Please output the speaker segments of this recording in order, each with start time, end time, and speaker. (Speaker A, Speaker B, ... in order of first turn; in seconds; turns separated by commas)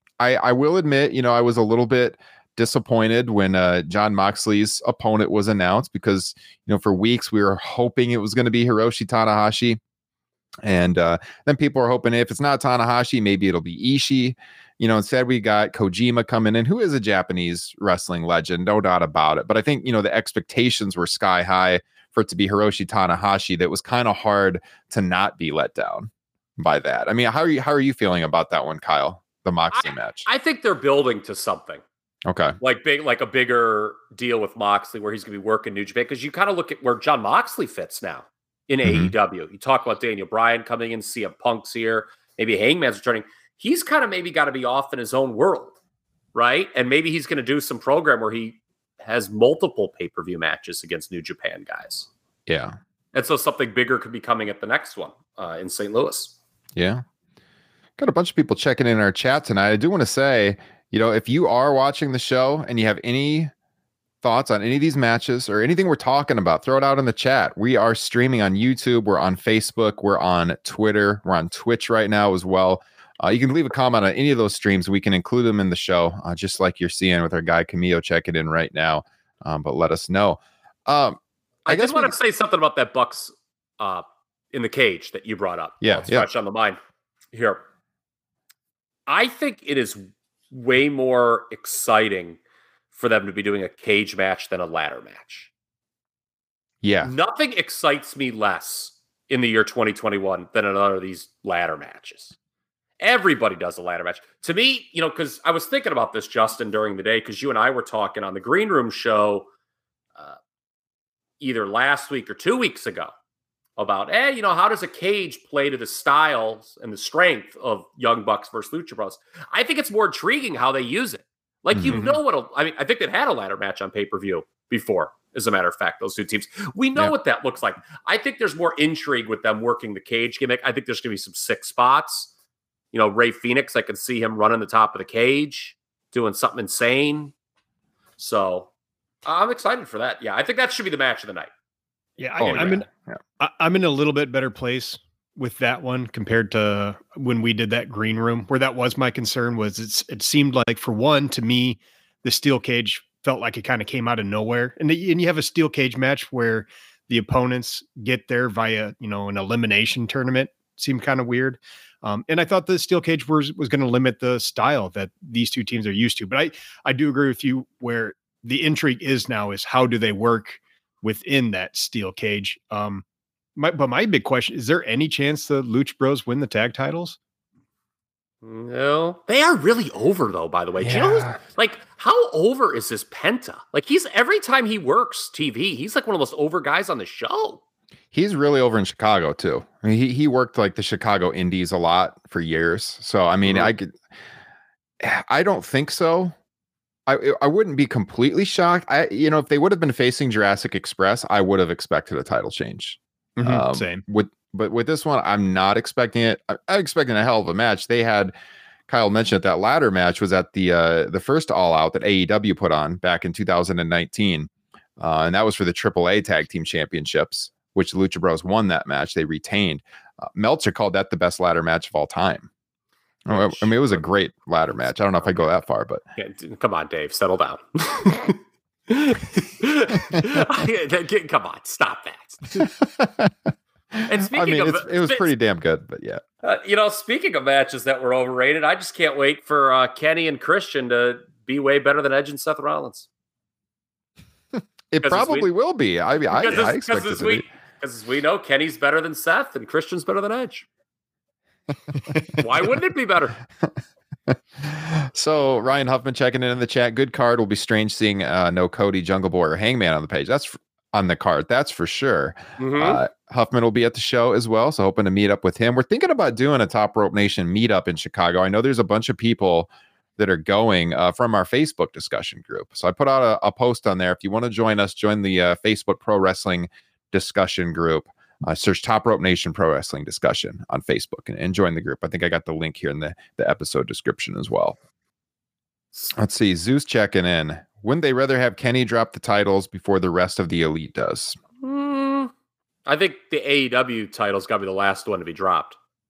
Speaker A: 0.2-9.8, Speaker A: 10.6-30.2, Speaker B: 29.7-31.8, Speaker A: 32.2-32.6, Speaker B: 32.6-45.7, Speaker A: 38.8-39.1, Speaker B: 46.3-52.1, Speaker A: 52.5-52.8, Speaker B: 53.1-56.3, Speaker A: 56.8-57.0, Speaker A: 58.0-63.5, Speaker A: 64.2-82.1, Speaker B: 81.7-86.8, Speaker A: 85.8-86.3, Speaker B: 87.3-87.6, Speaker B: 89.1-92.4, Speaker B: 92.9-95.5, Speaker A: 96.8-97.1, Speaker B: 97.0-102.3, Speaker B: 103.0-109.5, Speaker B: 111.4-113.1, Speaker B: 113.8-132.3, Speaker A: 121.7-122.0, Speaker C: 121.9-122.2, Speaker B: 132.9-137.3, Speaker B: 138.2-138.7, Speaker B: 139.2-141.5, Speaker C: 142.2-142.9, Speaker A: 142.4-143.2, Speaker C: 143.4-173.0, Speaker C: 173.6-177.2, Speaker B: 178.4-187.6, Speaker A: 180.8-181.4, Speaker A: 188.1-193.9, Speaker A: 195.0-196.3, Speaker A: 197.1-208.3, Speaker C: 203.4-204.0, Speaker A: 208.9-222.5, Speaker A: 223.3-226.0, Speaker B: 223.3-224.0, Speaker B: 226.2-232.7, Speaker A: 232.8-233.3, Speaker A: 233.9-236.2, Speaker B: 234.1-235.3, Speaker B: 236.4-243.1, Speaker A: 244.9-247.4, Speaker B: 245.0-245.5, Speaker B: 246.3-250.7, Speaker B: 252.4-253.3, Speaker A: 254.3-284.8, Speaker B: 262.6-263.0, Speaker A: 286.1-291.4, Speaker B: 291.6-292.3, Speaker B: 292.9-295.8